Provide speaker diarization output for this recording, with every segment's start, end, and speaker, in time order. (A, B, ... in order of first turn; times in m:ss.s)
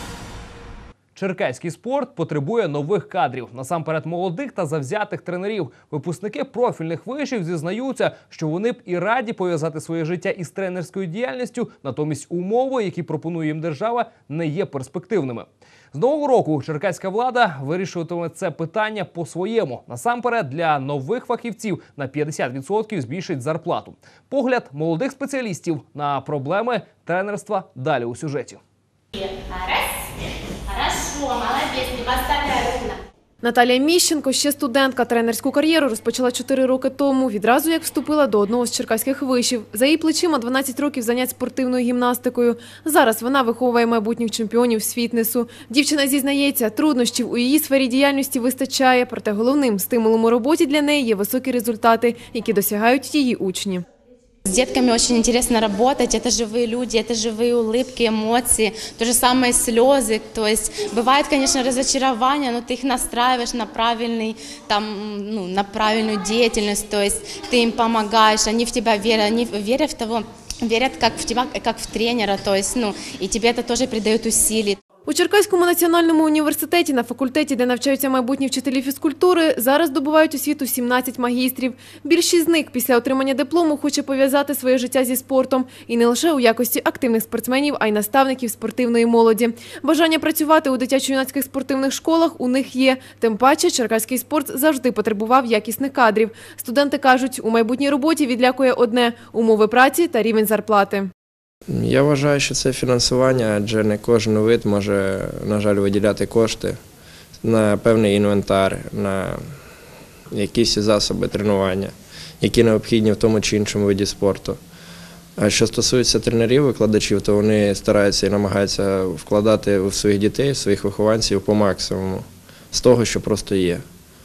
0:01.2-0:28.6 A
0:29.2-0:30.0 B
0:30.7-0:33.0 B
0:33.4-0:53.8 C
0:54.4-1:14.8 B
1:15.1-1:41.1 C
1:41.7-1:46.8 D
1:47.4-1:49.7 D
1:50.3-1:54.6 D
1:55.4-2:03.8 D